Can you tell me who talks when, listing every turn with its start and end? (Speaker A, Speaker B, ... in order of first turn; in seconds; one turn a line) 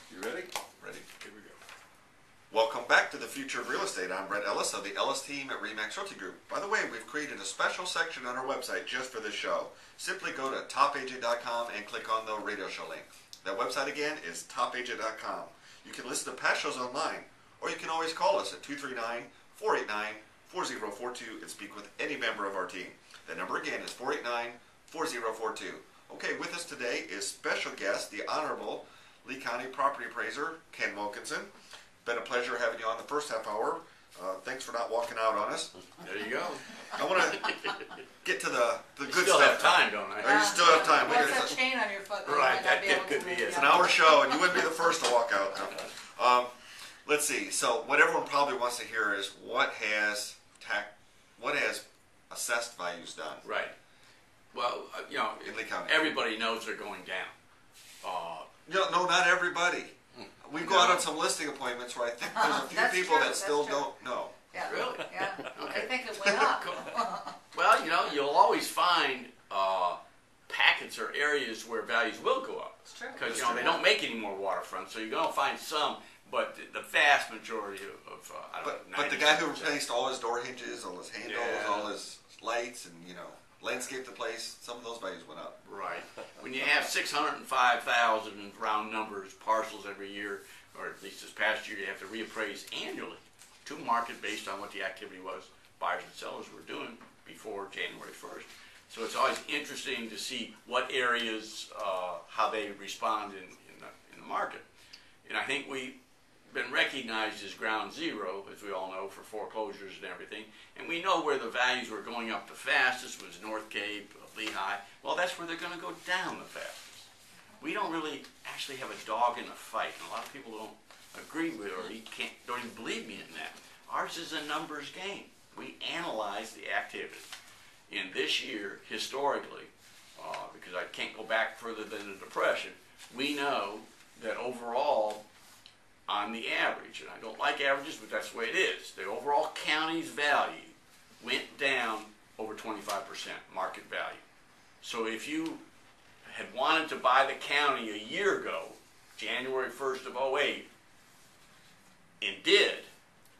Speaker A: 0.1-1.6
Speaker B: 2.5-31.5
Speaker B: 32.0-35.7
Speaker A: 36.0-37.9
Speaker B: 36.9-37.5
Speaker B: 38.2-41.6
Speaker A: 39.0-41.5
Speaker C: 40.2-44.6
Speaker A: 42.2-44.0
Speaker B: 43.5-46.5
Speaker A: 45.6-45.9
Speaker B: 47.0-53.4
Speaker A: 53.4-53.7
Speaker A: 54.5-57.3
Speaker B: 55.4-56.0
Speaker A: 58.0-58.5
Speaker B: 58.6-64.4
Speaker A: 60.1-61.1
Speaker C: 62.3-63.9
Speaker C: 64.5-67.4
Speaker A: 64.6-66.9
Speaker B: 66.2-66.6
Speaker A: 67.5-79.8
Speaker C: 72.9-73.7
Speaker B: 73.3-73.8
Speaker B: 78.6-85.6
Speaker A: 81.2-81.9
Speaker A: 85.6-104.6
Speaker A: 105.2-106.0
Speaker A: 106.5-117.1
Speaker A: 117.6-127.3
Speaker A: 127.9-135.2
Speaker A: 136.1-144.2
Speaker A: 144.8-145.6
Speaker A: 146.2-150.7
Speaker A: 152.2-152.9